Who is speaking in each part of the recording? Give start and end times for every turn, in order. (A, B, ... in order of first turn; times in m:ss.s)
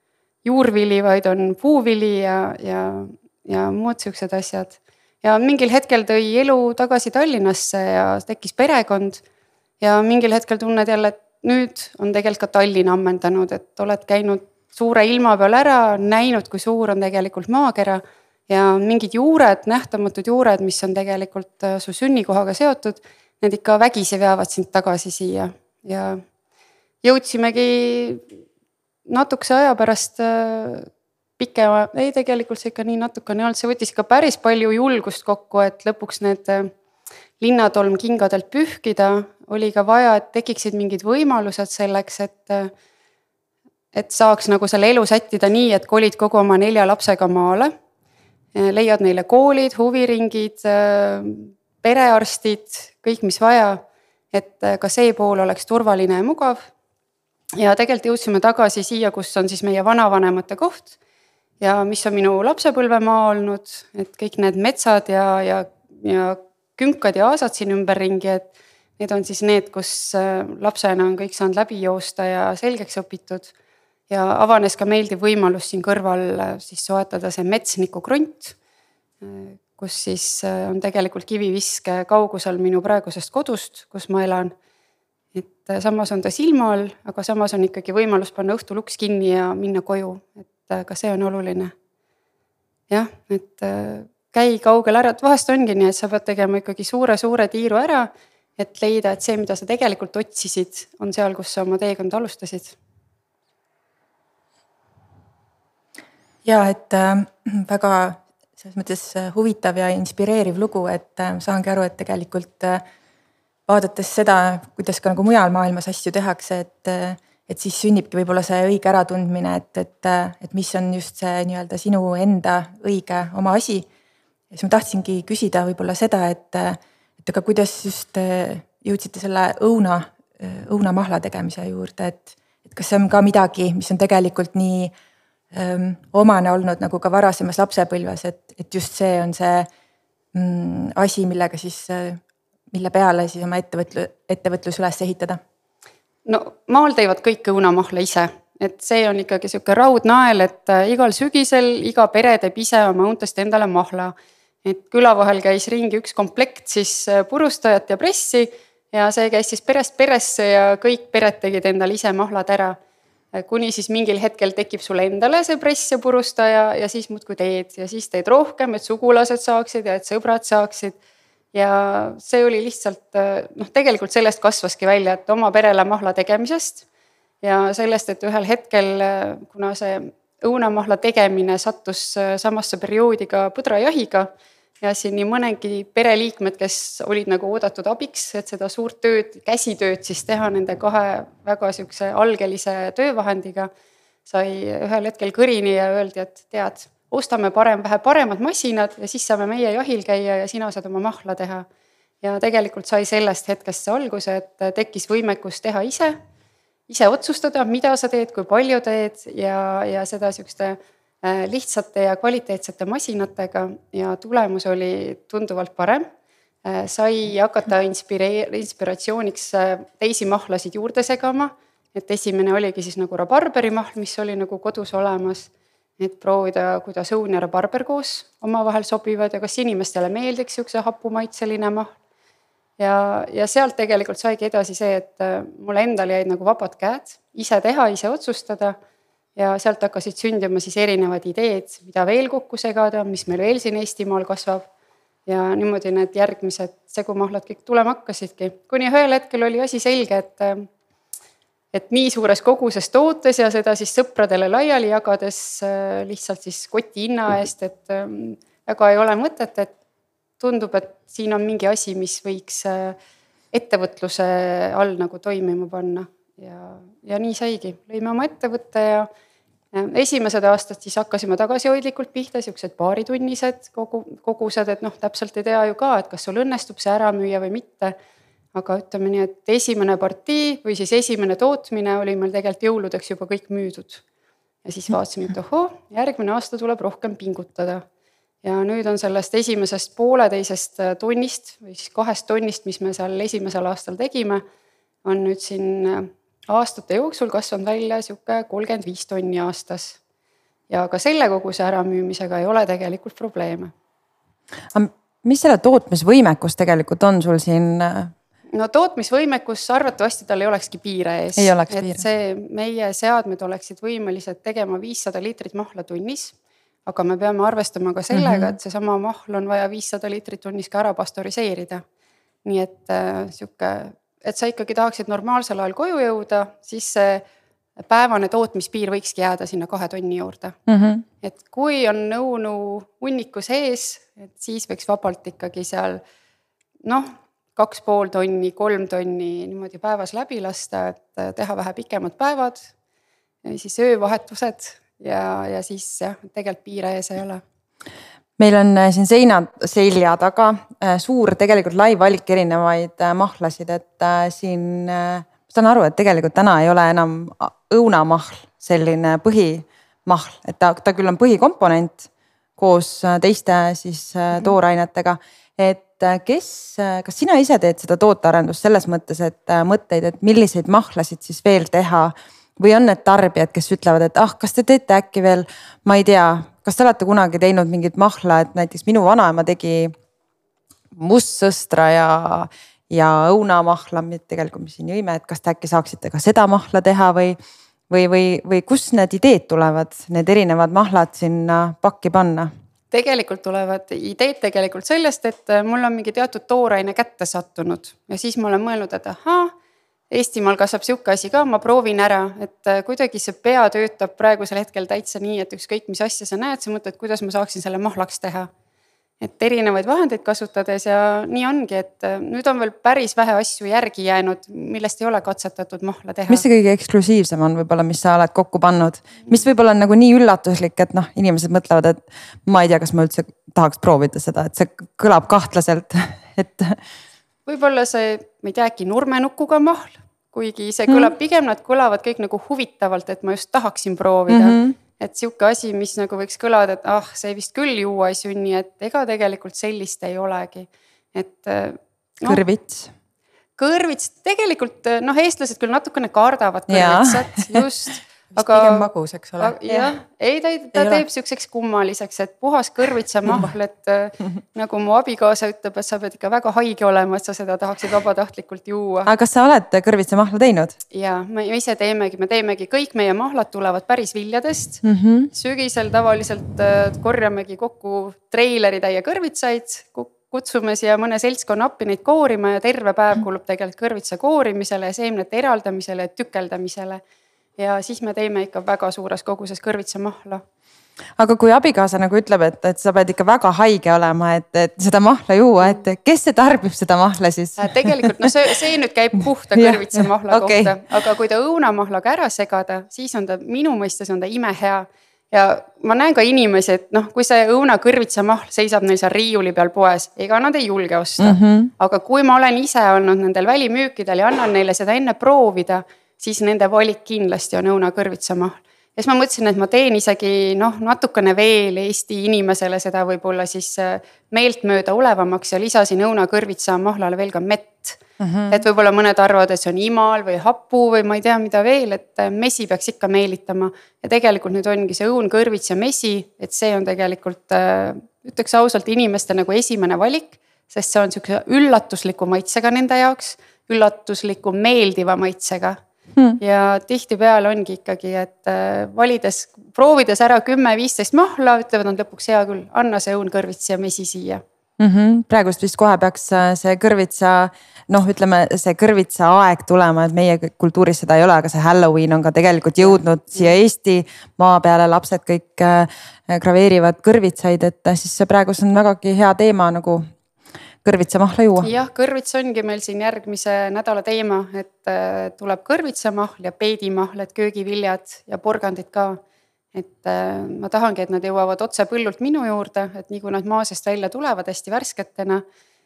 0:00.4-0:09.2 A
0:09.8-0:26.2 A
0:27.0-0:28.3 A
0:29.1-0:36.7 A
0:37.4-0:42.7 A
0:43.9-0:47.7 A
0:48.6-0:56.7 A
0:57.6-1:01.0 A
1:01.6-1:13.5 A
1:14.1-1:18.6 A
1:19.2-1:24.5 A
1:25.4-1:31.7 A
1:32.9-1:42.8 A
1:46.4-1:52.8 B
1:53.7-2:03.9 B
2:04.5-2:14.9 B
2:15.5-2:19.7 B
2:20.3-2:22.2 B
2:22.7-2:25.4 B
2:26.2-2:42.8 A
2:43.3-2:51.0 A
2:51.5-2:56.8 A
2:57.4-3:04.3 A
3:04.8-3:13.7 A
3:14.3-3:21.7 A
3:22.2-3:26.2 A
3:26.9-3:36.1 A
3:36.6-3:51.9 A
3:52.8-3:58.8 A
3:59.4-4:04.7 A
4:05.3-4:10.7 A
4:11.7-4:19.7 A
4:20.4-4:23.0 A
4:23.5-4:29.1 A
4:29.7-4:38.0 A
4:38.6-4:44.0 A
4:44.6-4:47.8 A
4:48.4-4:54.4 A
4:55.0-5:00.0 A
5:00.7-5:03.7 A
5:04.7-5:08.1 C
5:08.5-5:16.4 A
5:11.4-5:12.0 C
5:16.9-5:21.8 A
5:18.1-5:18.6 C
5:22.4-5:27.2 A
5:27.8-5:30.6 A
5:30.7-5:31.0 C
5:31.2-5:36.0 A
5:36.8-5:42.7 A
5:43.4-5:47.4 A
5:48.4-6:19.9 C
6:21.0-6:27.4 C
6:27.9-6:32.5 C
6:32.9-6:39.5 A
6:40.1-6:48.5 A
6:49.2-6:56.4 A
6:56.3-7:06.8 C
7:07.5-7:22.4 A
7:14.3-7:14.8 C
7:22.2-7:22.9 C
7:23.6-7:28.9 A
7:26.7-7:27.6 C
7:28.3-7:29.6 B
7:29.4-7:39.1 A
7:39.1-7:40.8 C
7:40.9-7:57.0 A
7:44.8-7:45.3 C
7:57.6-8:00.4 A
8:01.2-8:08.1 C
8:07.6-8:55.8 A
8:09.6-8:11.0 C
8:21.2-8:21.7 C
8:38.2-8:38.6 C
8:56.4-9:04.4 A
9:04.8-9:20.1 C
9:12.8-9:13.5 A
9:20.8-9:21.7 C
9:21.6-9:29.2 A
9:29.7-9:35.4 A